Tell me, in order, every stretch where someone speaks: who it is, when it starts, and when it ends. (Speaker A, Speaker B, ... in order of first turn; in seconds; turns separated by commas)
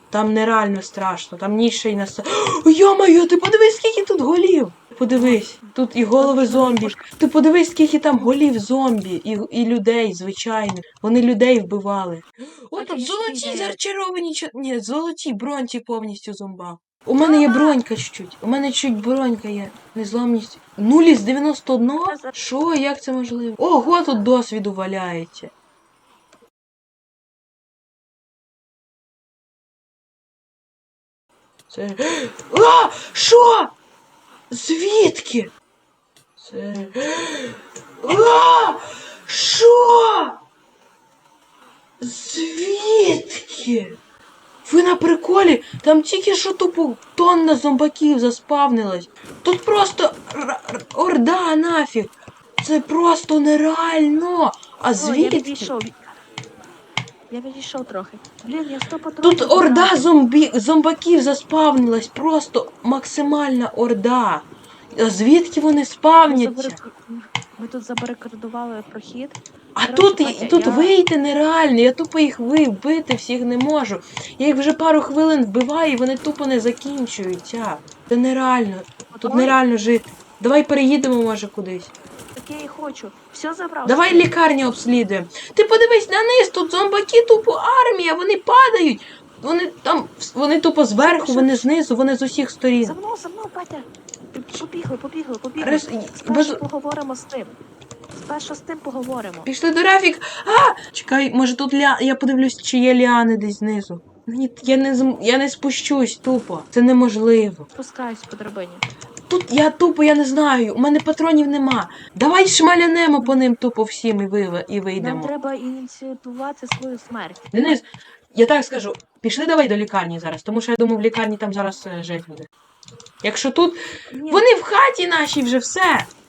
Speaker A: 0.1-25.5, Speaker B: 5.1-5.5, Speaker B: 6.2-7.0, Speaker B: 12.8-13.8, Speaker B: 17.2-17.8, Speaker B: 22.1-22.3, Speaker A: 31.7-33.7, Speaker A: 34.5-35.5, Speaker A: 36.4-40.4, Speaker A: 42.0-44.0, Speaker A: 44.6-55.7, Speaker B: 55.0-56.2, Speaker B: 57.3-60.1, Speaker A: 59.2-66.8, Speaker B: 66.2-70.9, Speaker A: 69.8-81.9, Speaker B: 79.1-79.6, Speaker B: 82.4-84.3, Speaker A: 83.8-92.9, Speaker B: 91.0-91.7, Speaker B: 92.8-97.5, Speaker A: 95.6-96.6, Speaker B: 98.1-99.5, Speaker A: 99.5-107.7, Speaker B: 107.7-108.8, Speaker A: 109.3-115.3, Speaker B: 115.0-117.5, Speaker A: 117.5-122.5, Speaker A: 123.2-123.8, Speaker B: 124.1-124.5, Speaker A: 124.3-126.1